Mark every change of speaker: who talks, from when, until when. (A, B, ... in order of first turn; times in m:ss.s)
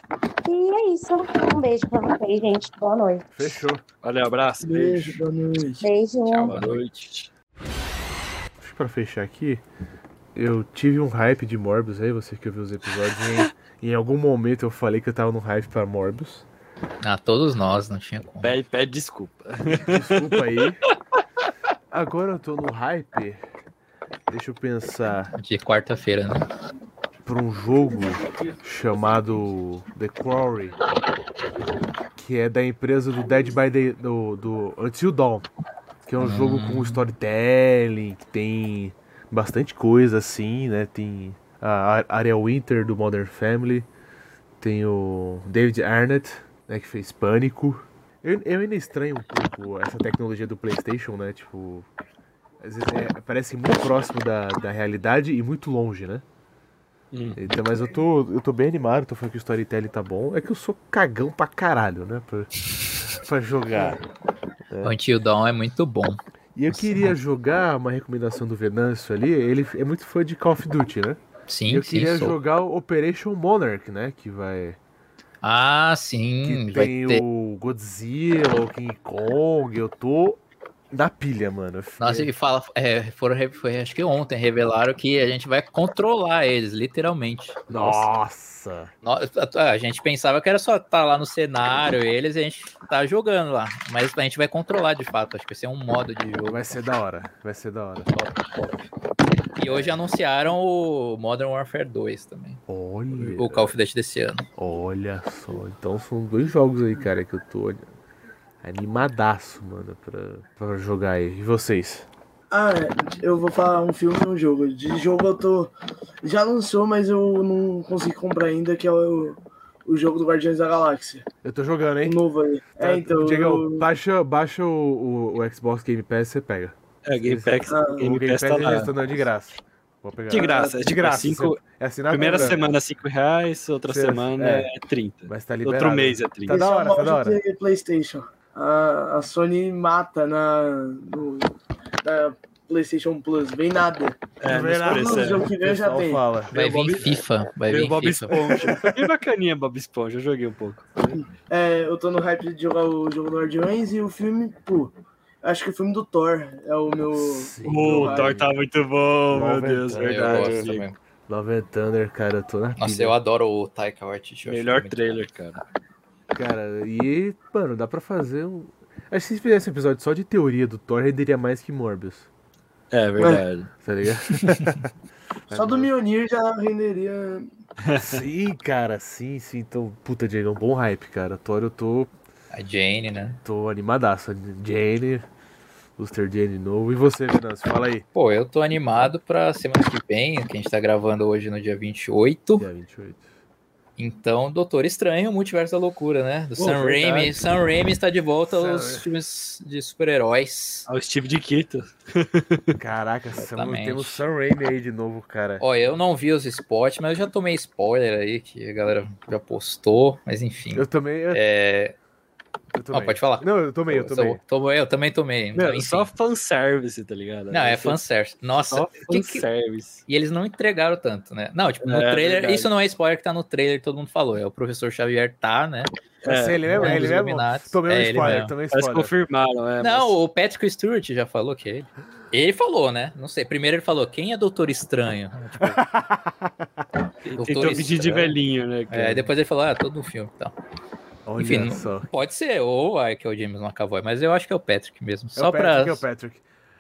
0:00.4-0:03.3 A
0:03.4-0:03.8 B
0:04.0-0:05.2 C
0:04.6-0:05.9 D
0:05.8-0:06.6 A
0:06.3-0:06.9 E
0:06.5-0:07.3 C
0:08.6-0:09.6 B
0:10.4-0:16.4 B
0:17.0-0:18.6 E
0:18.4-0:20.9 C
0:19.7-0:20.8 B
0:21.9-0:23.4 B
0:24.3-0:25.3 B
0:25.3-0:26.5 E
0:27.2-0:30.8 B
0:32.2-0:35.5 B
0:36.1-0:43.9 B
0:36.2-0:37.0 E
0:44.6-0:51.9 B
0:52.6-0:56.2 B
0:57.1-0:57.4 C
0:57.4-1:04.0 B
1:04.7-1:05.0 B
1:04.8-1:06.2 E
1:06.6-1:14.8 B
1:06.7-1:07.1 E
1:11.5-1:12.4 E
1:15.4-1:17.2 E
1:16.4-1:22.3 B
1:22.0-1:28.1 E
1:27.7-1:28.9 B
1:29.0-1:36.6 E
1:36.5-1:38.1 B
1:38.1-1:38.9 E
1:39.5-1:42.6 E
1:39.7-1:39.9 B
1:42.7-1:43.7 B
1:43.1-1:44.5 E
1:44.6-1:47.8 B
1:48.6-1:52.1 B
1:52.5-2:01.2 D
2:01.4-2:02.2 B
2:02.0-2:03.8 D
2:02.8-2:12.7 B
2:07.0-2:08.9 C
2:07.7-2:08.1 D
2:10.3-2:11.6 C
2:10.3-2:10.8 D
2:12.1-2:12.6 D
2:12.1-2:16.6 C
2:13.9-2:14.7 B
2:15.3-2:17.4 B
2:16.5-2:21.5 D
2:22.0-2:24.2 D
2:24.4-2:25.5 C
2:24.4-2:27.1 B
2:24.8-2:26.2 D
2:26.5-2:28.6 E
2:26.5-2:27.1 C
2:27.7-2:30.9 C
2:28.4-2:28.8 B
2:31.1-2:38.5 D
2:37.1-2:38.5 B
2:37.6-2:40.8 C
2:39.3-2:40.7 B
2:40.0-2:41.0 E
2:41.3-2:43.2 B
2:42.8-2:45.2 E
2:44.5-2:45.6 C
2:46.3-2:52.3 B
2:52.9-2:53.7 C
2:53.2-2:53.4 D
2:53.8-2:54.9 B
2:55.5-2:55.9 B
2:55.5-2:57.5 D
2:57.8-2:58.2 C
2:58.0-3:02.1 B
3:02.5-3:03.4 E
3:03.4-3:05.3 B
3:06.0-3:08.0 B
3:08.1-3:12.7 E
3:12.6-3:13.3 B
3:14.0-3:20.9 E
3:16.6-3:17.3 C
3:18.5-3:19.1 B
3:20.9-3:22.8 C
3:22.8-3:25.6 B
3:23.4-3:24.2 E
3:25.6-3:32.0 E
3:30.7-3:31.4 B
3:32.7-3:34.4 B
3:32.9-3:36.1 E
3:35.6-3:38.0 C
3:37.5-3:39.5 E
3:38.7-3:40.0 C
3:40.1-3:45.9 E
3:41.8-3:42.7 C
3:46.2-3:47.2 C
3:46.3-3:49.1 B
3:46.7-3:48.5 E
3:48.7-3:50.2 C
3:49.8-3:55.8 E
3:55.6-3:56.7 B
3:57.2-3:59.3 C
3:57.4-3:58.4 E
3:58.9-4:00.5 E
4:01.3-4:02.1 B
4:01.4-4:06.0 E
4:05.4-4:06.4 B